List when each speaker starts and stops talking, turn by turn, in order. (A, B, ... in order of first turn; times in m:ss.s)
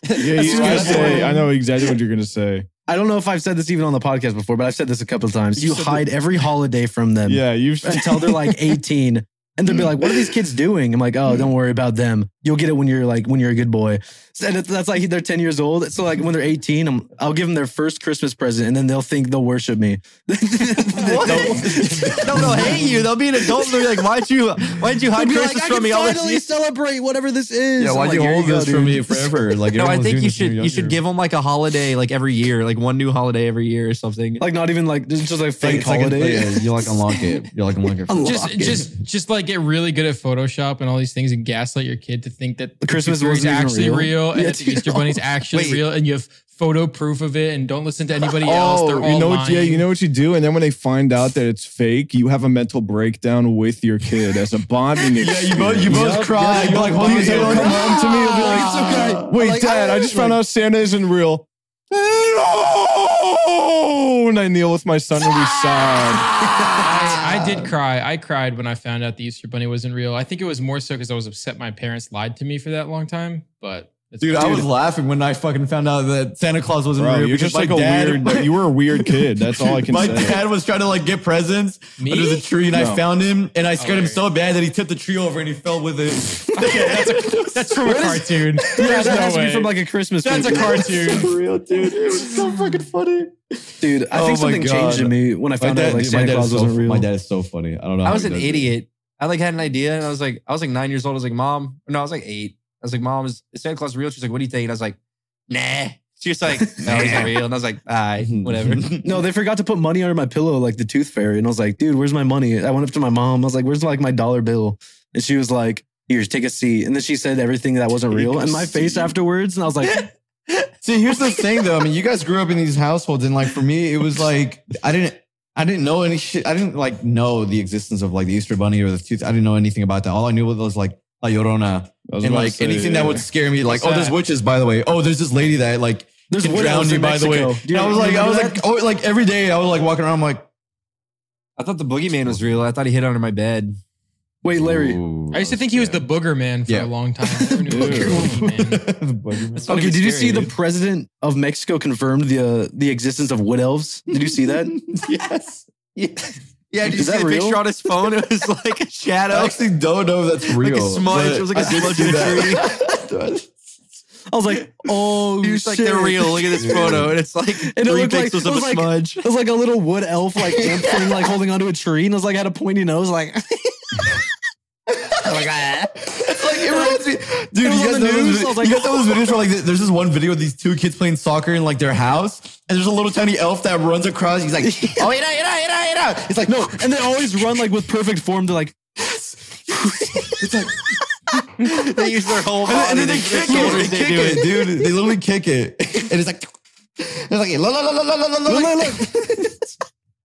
0:00.2-0:02.7 A
0:00.2-0:01.5 B
0:00.3-0:01.2 C
0:00.5-0:01.0 D
0:02.9-0:22.9 B
0:05.6-0:06.1 A
0:07.2-0:08.8 A
0:21.0-0:26.5 C
0:21.2-0:23.1 D
0:23.6-0:23.9 B
0:25.2-0:29.5 B
0:27.8-0:31.0 D
0:29.8-0:34.4 C
0:34.4-0:37.2 B
0:35.6-0:38.9 D
0:38.1-0:38.9 B
0:38.2-0:49.9 E
0:42.8-0:45.2 B
0:45.5-0:45.8 C
0:48.4-1:06.4 A
0:55.2-0:59.3 D
0:55.9-1:00.4 B
1:06.3-1:06.8 D
1:06.8-1:14.7 E
1:14.2-1:29.1 D
1:17.0-1:20.4 A
1:22.0-1:22.5 E
1:22.7-1:23.0 A
1:23.8-1:24.2 E
1:26.5-1:31.3 E
1:27.9-1:31.3 B
1:30.5-1:33.3 D
1:33.8-1:37.1 B
1:34.1-1:38.7 D
1:38.0-1:45.0 C
1:45.5-1:48.9 C
1:46.5-1:47.3 B
1:46.9-1:47.3 D
1:48.2-1:49.2 D
1:49.0-2:00.1 B
1:58.1-1:59.2 D
2:00.8-2:20.5 D
2:12.1-2:13.7 A
2:16.3-2:18.6 B
2:21.6-2:23.8 C
2:22.2-2:22.6 D
2:24.4-2:25.0 B
2:24.6-2:26.1 D
2:25.3-2:28.8 E
2:26.7-2:30.5 D
2:27.7-2:28.3 A
2:29.7-2:34.8 B
2:29.7-2:30.5 C
2:34.2-2:36.2 D
2:36.7-2:39.6 C
2:36.9-2:37.6 B
2:39.3-2:43.8 D
2:40.6-2:42.7 C
2:41.6-2:42.6 B
2:44.3-2:54.2 B
2:45.4-2:49.2 C
2:46.5-2:47.1 D
2:50.7-2:51.1 D
2:55.2-2:57.0 B
2:56.0-3:06.8 D
2:57.6-2:59.2 B
3:04.6-3:05.1 B
3:06.4-3:08.8 B
3:09.7-3:19.6 D
3:09.7-3:10.3 B
3:11.6-3:14.5 C
3:13.4-3:13.9 B
3:18.5-3:19.7 B